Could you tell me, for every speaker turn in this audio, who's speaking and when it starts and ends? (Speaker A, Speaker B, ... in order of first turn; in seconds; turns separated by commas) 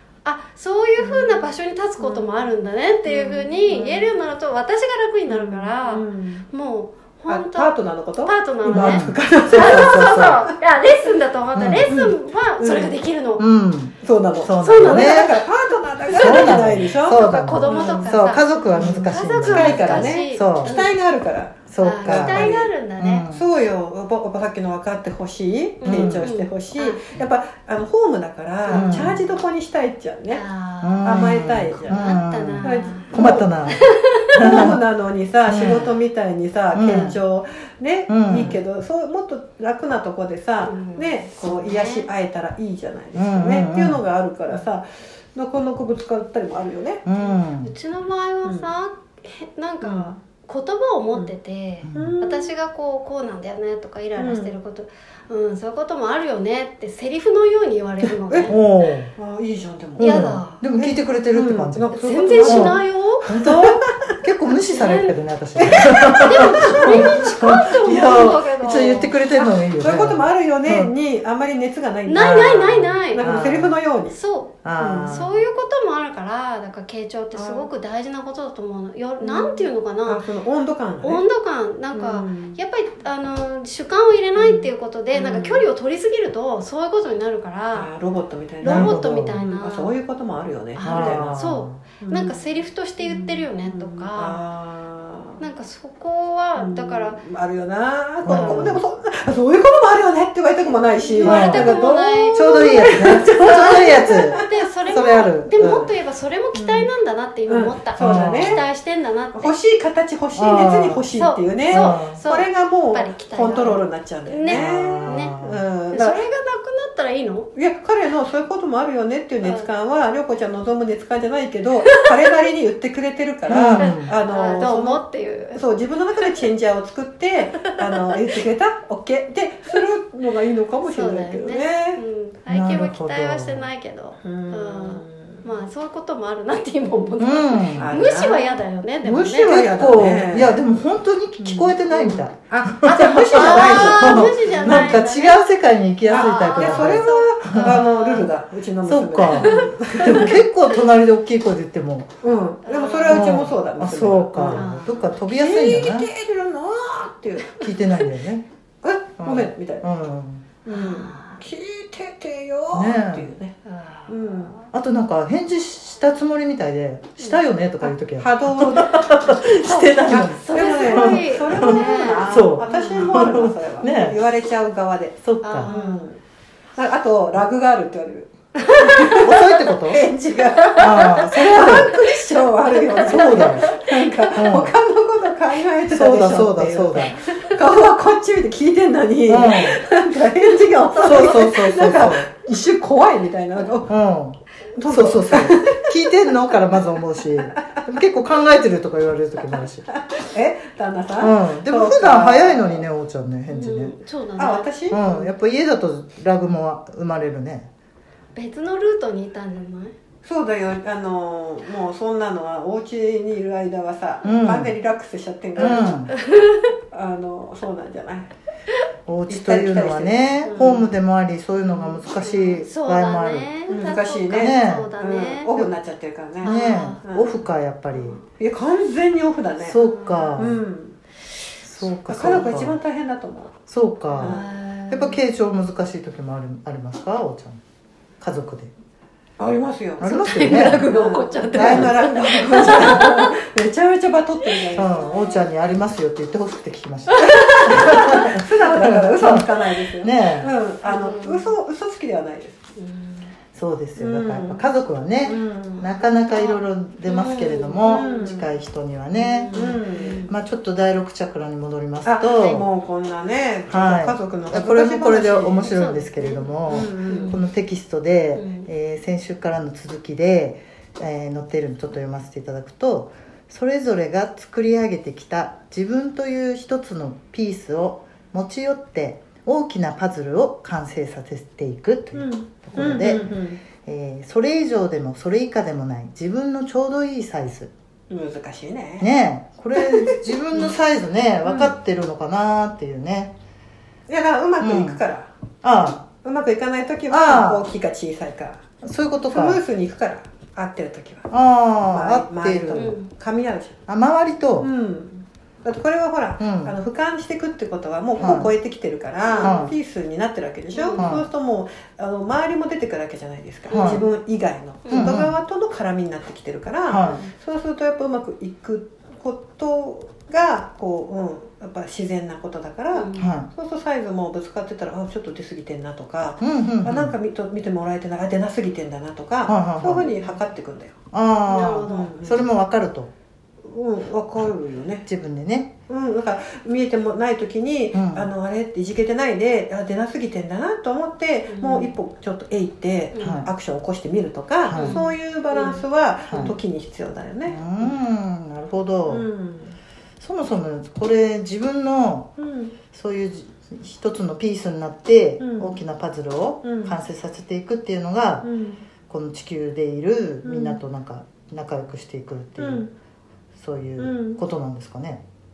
Speaker A: 0.2-13.4, Speaker B: 1.0-2.5, Speaker B: 3.0-4.1, Speaker B: 5.3-6.5, Speaker B: 7.3-10.5, Speaker C: 8.7-10.4, Speaker C: 11.5-11.9, Speaker B: 11.9-12.9, Speaker C: 13.4-15.3, Speaker B: 14.0-18.2, Speaker A: 14.6-15.4, Speaker C: 16.1-20.8, Speaker A: 16.1-20.9, Speaker B: 18.7-22.7, Speaker C: 21.7-23.5, Speaker A: 21.8-23.3, Speaker B: 23.3-30.4, Speaker A: 25.8-27.0, Speaker C: 25.9-26.3, Speaker A: 28.7-29.1, Speaker C: 28.7-29.2, Speaker A: 30.3-33.1, Speaker C: 30.8-34.8, Speaker B: 31.0-33.5, Speaker A: 33.7-34.8, Speaker B: 34.4-47.1, Speaker C: 35.5-35.9, Speaker C: 36.7-37.2, Speaker C: 38.1-38.6, Speaker A: 40.6-42.1, Speaker C: 43.1-44.0, Speaker C: 47.1-47.7, Speaker A: 47.1-58.6, Speaker B: 48.4-48.7, Speaker B: 49.8-50.2, Speaker C: 51.8-52.1, Speaker B: 51.9-52.5, Speaker B: 54.2-54.6, Speaker B: 58.3-58.5, Speaker C: 58.5-59.1, Speaker B: 59.2-62.8, Speaker A: 60.0-60.6, Speaker C: 60.0-61.9, Speaker A: 61.9-63.3, Speaker C: 62.4-70.9, Speaker B: 63.4-63.7, Speaker A: 64.5-69.2, Speaker B: 65.6-67.4, Speaker B: 69.4-74.2, Speaker A: 72.1-73.3, Speaker C: 72.2-73.8, Speaker A: 74.1-80.2, Speaker C: 74.6-75.4, Speaker B: 74.8-75.4, Speaker B: 77.3-77.7, Speaker B: 79.2-81.2, Speaker A: 81.0-87.9, Speaker B: 81.9-82.6, Speaker B: 84.3-85.7, Speaker B: 87.7-91.4, Speaker A: 88.6-90.0, Speaker C: 88.7-89.4, Speaker A: 90.8-94.4, Speaker C: 90.8-91.8, Speaker B: 92.0-92.4, Speaker B: 93.0-95.4, Speaker A: 95.4-97.2, Speaker B: 96.6-104.5, Speaker C: 98.2-98.8, Speaker A: 98.3-98.7, Speaker A: 101.0-109.5, Speaker C: 101.2-101.8, Speaker C: 102.3-105.9, Speaker B: 106.5-106.9, Speaker B: 107.5-108.6, Speaker C: 108.0-108.6, Speaker B: 109.3-116.2, Speaker C: 110.4-111.1, Speaker A: 111.1-115.3, Speaker C: 111.7-112.2, Speaker C: 114.5-115.7, Speaker A: 115.9-117.5, Speaker B: 117.5-125.0, Speaker A: 119.4-119.7, Speaker C: 123.5-124.1, Speaker A: 123.5-125.6, Speaker B: 125.5-132.0, Speaker A: 127.5-128.2, Speaker A: 130.8-139.6, Speaker C: 132.5-133.7, Speaker B: 134.2-135.5, Speaker C: 137.2-137.9, Speaker B: 137.8-140.6, Speaker C: 139.4-148.3, Speaker B: 141.4-145.0, Speaker A: 142.9-145.4, Speaker A: 146.1-148.3, Speaker B: 146.1-150.4, Speaker C: 148.8-152.1, Speaker A: 149.3-150.8, Speaker B: 152.2-154.7, Speaker A: 152.7-153.5, Speaker C: 153.1-156.1, Speaker A: 154.5-155.2, Speaker B: 155.3-157.7, Speaker A: 157.5-158.1, Speaker C: 157.5-158.5, Speaker B: 158.8-159.9, Speaker C: 159.2-160.5, Speaker B: 160.6-163.6, Speaker A: 160.7-161.4, Speaker C: 162.7-163.3, Speaker A: 163.6-164.6, Speaker B: 164.1-164.6, Speaker C: 164.7-174.2, Speaker B: 167.8-169.1, Speaker A: 169.4-173.1, Speaker B: 170.1-176.2, Speaker C: 175.2-175.7, Speaker A: 175.4-176.1, Speaker B: 176.8-193.9, Speaker A: 178.7-179.4, Speaker C: 179.2-180.0, Speaker A: 180.6-181.9, Speaker C: 180.8-181.9, Speaker A: 182.8-184.3, Speaker C: 183.1-183.7, Speaker C: 184.4-184.7, Speaker C: 185.9-187.2, Speaker C: 189.3-189.8, Speaker C: 190.9-192.3, Speaker C: 193.9-199.9, Speaker B: 194.8-195.8, Speaker B: 199.6-202.9, Speaker C: 201.2-203.9, Speaker A: 203.5-205.3, Speaker B: 204.4-205.2, Speaker C: 204.9-207.7, Speaker A: 208.3-209.9, Speaker B: 210.2-216.1, Speaker C: 214.2-214.8, Speaker C: 215.6-216.1, Speaker A: 215.6-216.7, Speaker B: 216.9-218.3, Speaker C: 219.1-223.5, Speaker B: 219.3-220.9, Speaker A: 220.4-220.8, Speaker A: 221.6-225.5, Speaker B: 223.7-227.3, Speaker C: 224.3-224.9, Speaker A: 226.4-227.0, Speaker C: 226.4-228.2, Speaker A: 227.9-228.2, Speaker B: 228.4-229.8, Speaker C: 229.6-230.6, Speaker A: 229.8-230.4, Speaker B: 230.3-231.0, Speaker C: 231.6-232.8, Speaker B: 232.1-233.6, Speaker C: 233.7-237.6, Speaker A: 234.1-235.2, Speaker B: 234.2-234.4, Speaker C: 238.2-238.7, Speaker B: 239.4-245.1, Speaker C: 240.0-240.9, Speaker A: 240.0-243.3, Speaker C: 241.5-241.9, Speaker C: 242.6-242.8, Speaker C: 244.8-249.5, Speaker A: 247.1-248.3, Speaker B: 247.2-252.7, Speaker C: 250.0-250.5, Speaker A: 250.8-251.6, Speaker A: 252.8-253.3, Speaker C: 253.5-259.6, Speaker B: 253.9-254.7, Speaker B: 255.2-255.9, Speaker A: 255.9-258.4, Speaker B: 257.8-258.5, Speaker A: 259.1-260.3, Speaker B: 259.5-260.2, Speaker C: 260.3-262.7, Speaker B: 262.0-265.7, Speaker A: 262.4-262.6, Speaker C: 263.7-283.3, Speaker A: 265.7-267.4, Speaker B: 266.7-267.4, Speaker A: 268.3-268.7, Speaker B: 282.1-283.6, Speaker C: 283.8-287.7, Speaker B: 288.1-289.1, Speaker C: 289.0-293.3, Speaker B: 289.8-290.2, Speaker B: 291.4-291.8, Speaker B: 294.1-295.3, Speaker C: 294.6-295.0, Speaker C: 295.6-296.1, Speaker B: 296.2-298.6, Speaker C: 297.1-297.7, Speaker C: 298.8-299.6, Speaker B: 299.3-301.3, Speaker C: 301.3-303.0, Speaker B: 301.9-303.8, Speaker A: 302.7-303.1, Speaker C: 303.9-304.7, Speaker B: 304.6-330.9, Speaker C: 306.4-306.8, Speaker C: 308.2-308.5, Speaker A: 309.3-309.7, Speaker C: 309.4-309.7, Speaker A: 310.7-311.1, Speaker C: 310.9-311.3, Speaker A: 313.7-314.0, Speaker C: 313.7-314.1, Speaker A: 314.8-315.2, Speaker C: 314.9-315.4, Speaker C: 316.9-317.2, Speaker A: 317.0-317.3, Speaker A: 322.9-323.3, Speaker C: 323.2-323.5, Speaker C: 326.4-327.1, Speaker C: 329.5-330.1, Speaker C: 331.1-333.1, Speaker A: 331.4-332.1, Speaker B: 331.9-332.4, Speaker B: 333.6-335.1, Speaker C: 335.1-335.7, Speaker B: 335.9-348.0, Speaker C: 337.9-338.3, Speaker A: 341.5-341.9, Speaker A: 343.1-343.5, Speaker C: 343.2-343.5, Speaker A: 344.7-346.5, Speaker C: 344.7-345.0, Speaker C: 346.3-346.6, Speaker C: 347.5-349.3, Speaker B: 349.1-349.8, Speaker C: 350.2-352.3, Speaker B: 352.4-352.8, Speaker C: 352.9-358.5, Speaker B: 355.4-355.8, Speaker B: 356.6-356.9, Speaker B: 358.4-358.8, Speaker C: 359.1-362.8, Speaker B: 360.4-360.8, Speaker B: 362.6-362.9, Speaker C: 363.6-365.2, Speaker B: 364.0-364.4